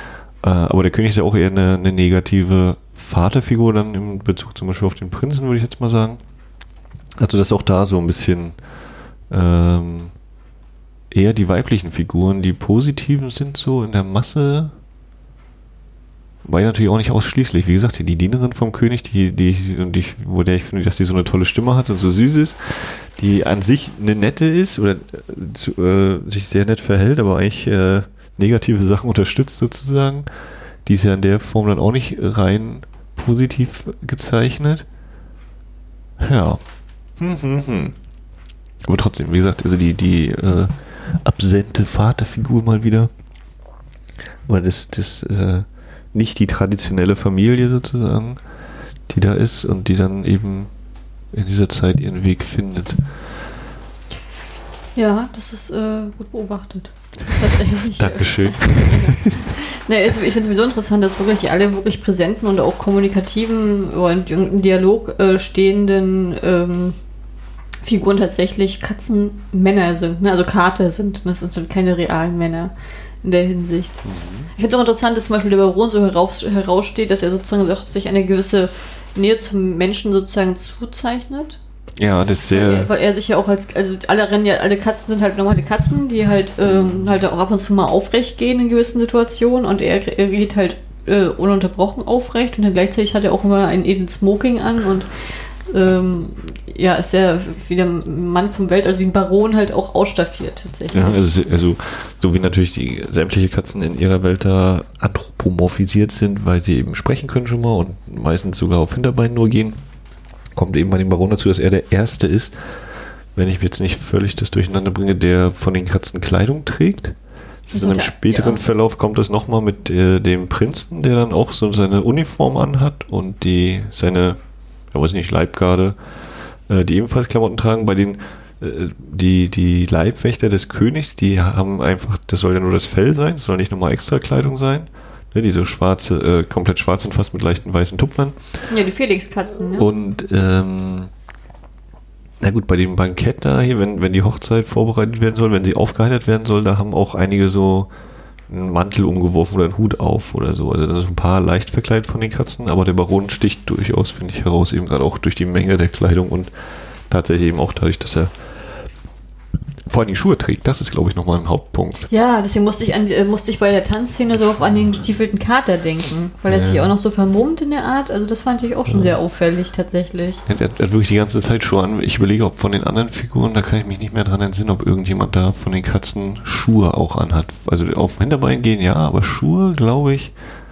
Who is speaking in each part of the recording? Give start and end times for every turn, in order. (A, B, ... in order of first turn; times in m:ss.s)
0:00.4-0:06.2 A
0:07.2-0:08.6 A
0:09.3-0:10.1 A
0:11.1-0:14.7 A
0:16.4-0:30.3 A
0:30.8-0:34.9 A
0:36.2-0:36.6 A
0:37.2-0:38.0 A
0:38.8-0:43.1 A
0:44.5-0:48.4 A
0:49.1-0:50.7 A
0:51.3-0:53.0 A
0:55.0-1:07.0 B
0:58.0-0:59.4 A
1:07.8-1:12.7 B
1:13.2-1:14.0 B
1:14.0-1:14.5 A
1:14.6-1:21.6 B
1:22.0-1:22.9 A
1:22.5-1:41.2 B
1:26.7-1:27.1 A
1:40.9-1:49.8 A
1:50.6-1:52.7 A
1:53.4-1:57.2 A
1:57.7-2:04.4 A
1:57.7-1:58.6 B
2:04.9-2:06.0 A
2:06.7-2:18.6 A
2:18.7-2:19.9 B
2:19.7-2:21.1 A
2:22.4-2:27.9 A
2:28.5-2:36.5 A
2:37.1-2:38.8 A
2:39.9-2:42.1 A
2:42.1-2:50.4 B
2:46.5-2:46.9 A
2:48.9-2:49.2 A
2:50.5-3:00.3 A